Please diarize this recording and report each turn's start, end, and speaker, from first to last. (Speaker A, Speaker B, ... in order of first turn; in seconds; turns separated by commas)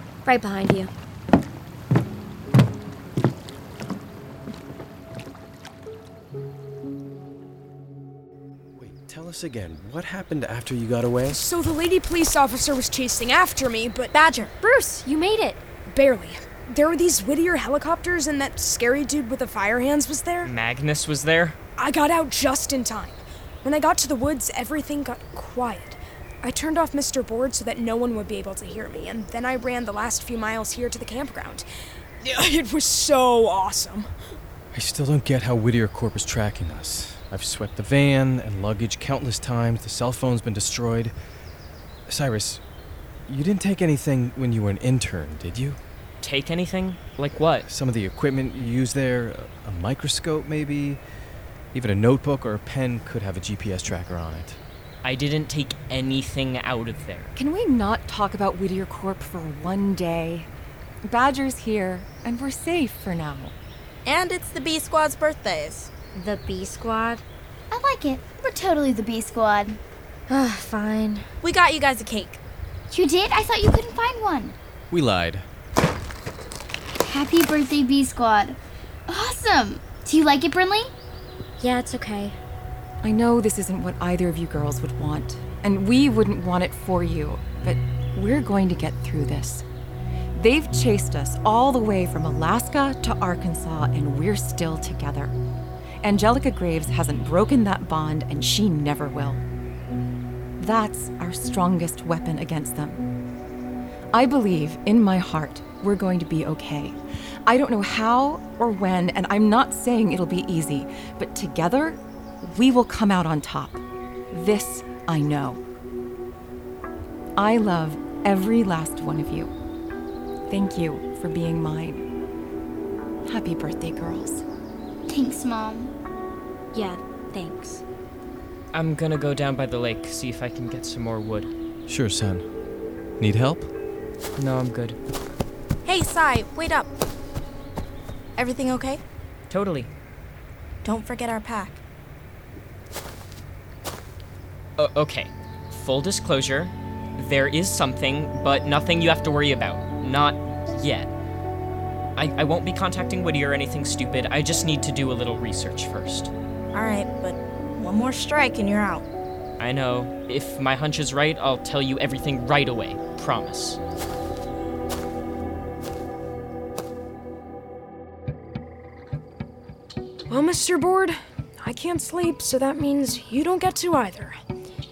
Speaker A: 0.2-0.9, Speaker B: 8.8-11.5, Speaker C: 11.3-14.2, Speaker D: 14.1-14.5, Speaker A: 14.6-15.6, Speaker C: 15.9-20.5, Speaker E: 20.4-21.6, Speaker C: 21.8-31.6, Speaker C: 32.2-34.1, Speaker B: 34.7-41.1, Speaker B: 42.1-42.6, Speaker B: 43.3-45.8, Speaker E: 46.2-47.7, Speaker B: 47.7-51.0, Speaker B: 51.7-54.6, Speaker E: 55.0-57.3, Speaker F: 57.4-60.5, Speaker F: 61.1-63.5, Speaker D: 64.0-65.9, Speaker A: 66.1-67.2, Speaker G: 67.7-69.8, Speaker A: 70.3-71.2, Speaker D: 71.4-72.4, Speaker G: 72.9-74.6, Speaker B: 74.9-75.5, Speaker G: 77.0-80.9, Speaker A: 81.6-82.4, Speaker F: 83.0-89.7, Speaker F: 90.3-95.3, Speaker F: 96.0-99.5, Speaker F: 100.6-103.1, Speaker F: 104.1-115.6, Speaker F: 117.4-119.5, Speaker F: 120.5-122.1, Speaker F: 123.3-124.4, Speaker G: 125.1-125.9, Speaker A: 126.7-127.8, Speaker E: 128.7-131.5, Speaker B: 131.9-132.5, Speaker B: 133.2-133.7, Speaker E: 134.4-135.0, Speaker D: 135.8-136.9, Speaker D: 138.4-139.0, Speaker E: 139.5-139.9, Speaker D: 140.8-141.8, Speaker E: 144.8-151.1, Speaker E: 152.2-156.3, Speaker D: 156.7-159.1, Speaker E: 159.6-163.8, Speaker C: 170.3-174.3